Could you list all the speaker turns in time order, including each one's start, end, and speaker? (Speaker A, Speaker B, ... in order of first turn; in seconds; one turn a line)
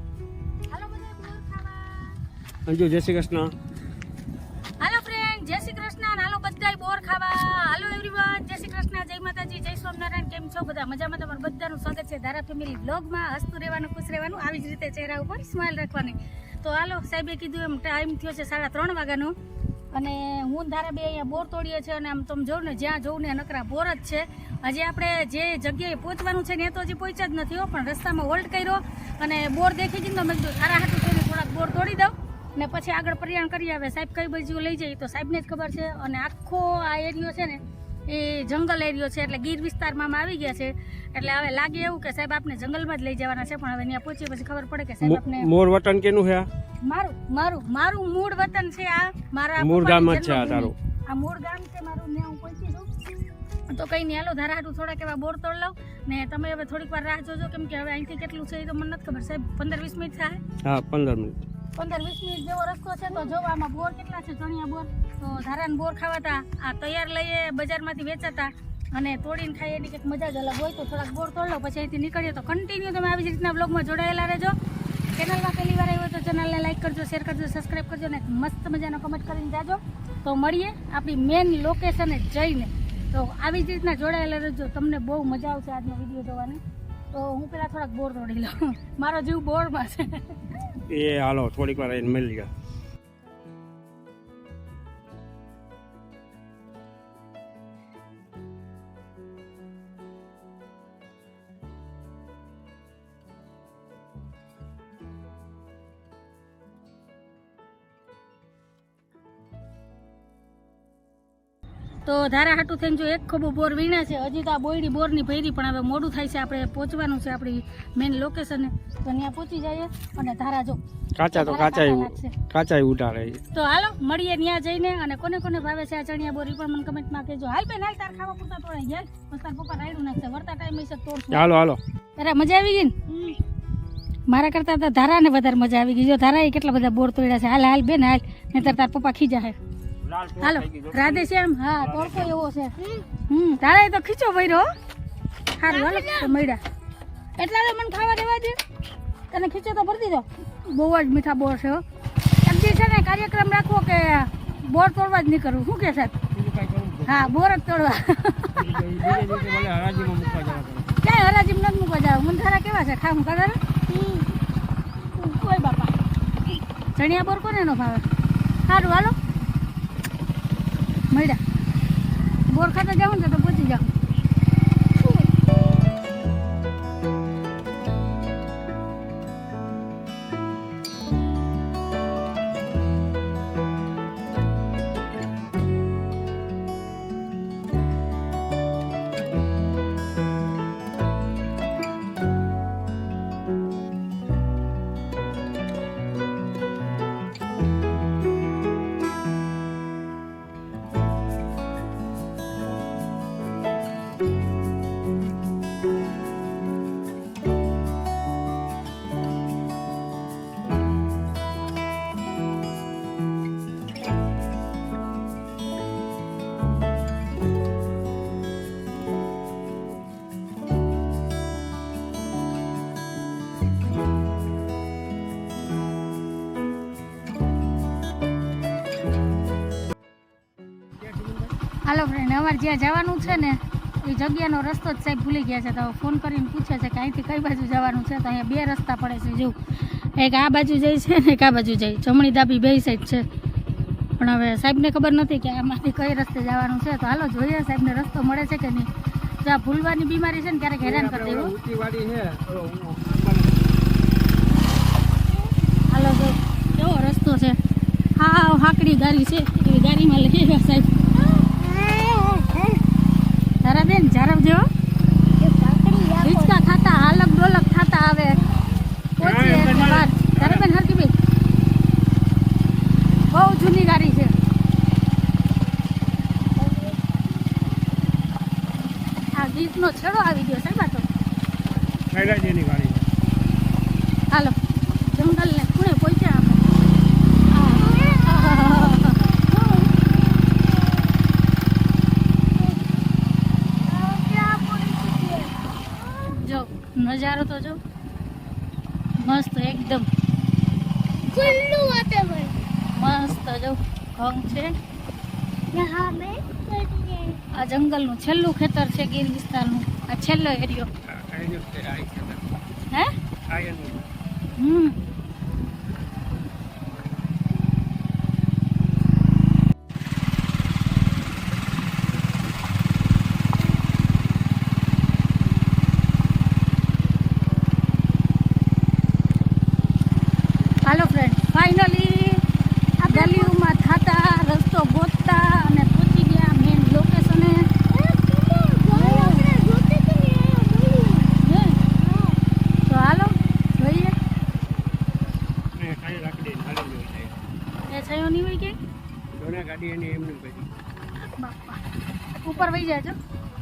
Speaker A: 0.7-2.2
Speaker B: 2.7-3.5
Speaker A: 4.8-19.4
Speaker A: 19.9-45.5
Speaker B: 45.0-46.5
Speaker A: 46.8-52.9
Speaker B: 49.6-50.8
Speaker A: 53.7-60.4
Speaker B: 60.6-61.4
Speaker A: 61.8-74.5
Speaker A: 75.1-86.6
Speaker A: 87.1-90.7
Speaker B: 90.9-92.5
Speaker A: 112.0-122.4
Speaker B: 121.2-123.4
Speaker A: 123.5-131.5
Speaker B: 131.3-131.8
Speaker A: 132.2-133.0
Speaker C: 133.1-133.4
Speaker A: 134.3-139.6
Speaker B: 140.0-142.4
Speaker A: 140.4-142.8
Speaker C: 142.8-143.1
Speaker A: 143.3-144.7
Speaker A: 145.6-146.6
Speaker C: 145.7-146.4
Speaker A: 147.4-148.6
Speaker A: 149.3-151.8
Speaker A: 152.4-156.2
Speaker B: 156.3-157.3
Speaker A: 157.1-158.7
Speaker B: 158.5-161.0
Speaker A: 161.0-163.6
Speaker C: 163.9-164.3
Speaker A: 165.1-166.0
Speaker A: 166.9-168.1
Speaker A: 168.6-169.2
Speaker A: 171.1-171.4
Speaker A: 172.5-173.9
Speaker C: 175.0-175.3
Speaker B: 231.0-231.5
Speaker A: 231.8-243.2
Speaker A: 244.2-248.9
Speaker A: 249.4-251.5
Speaker B: 250.8-253.7
Speaker A: 255.9-257.6
Speaker A: 258.2-260.9
Speaker C: 261.2-262.8
Speaker A: 263.6-264.7
Speaker C: 265.4-266.7
Speaker A: 266.2-268.4
Speaker A: 269.2-271.1
Speaker B: 269.2-270.7
Speaker A: 273.3-274.3
Speaker C: 276.6-277.0
Speaker A: 279.4-281.1
Speaker B: 282.1-283.1
Speaker A: 284.3-286.7
Speaker A: 287.5-289.4
Speaker C: 287.7-291.2
Speaker C: 292.5-293.0
Speaker C: 293.7-296.2
Speaker A: 296.2-297.8
Speaker A: 299.2-300.1
Speaker C: 301.3-302.6
Speaker A: 302.9-304.8
Speaker C: 305.7-307.4
Speaker A: 307.5-310.9
Speaker B: 311.1-312.4
Speaker B: 313.5-314.1
Speaker A: 314.6-315.0
Speaker A: 330.8-332.4
Speaker A: 333.0-337.7
Speaker C: 333.1-333.6
Speaker C: 337.9-342.4
Speaker A: 338.9-339.5
Speaker A: 341.4-341.8
Speaker A: 342.9-344.1
Speaker B: 345.8-347.4
Speaker A: 347.9-348.8
Speaker B: 349.3-350.7
Speaker A: 351.2-351.8
Speaker A: 352.4-353.2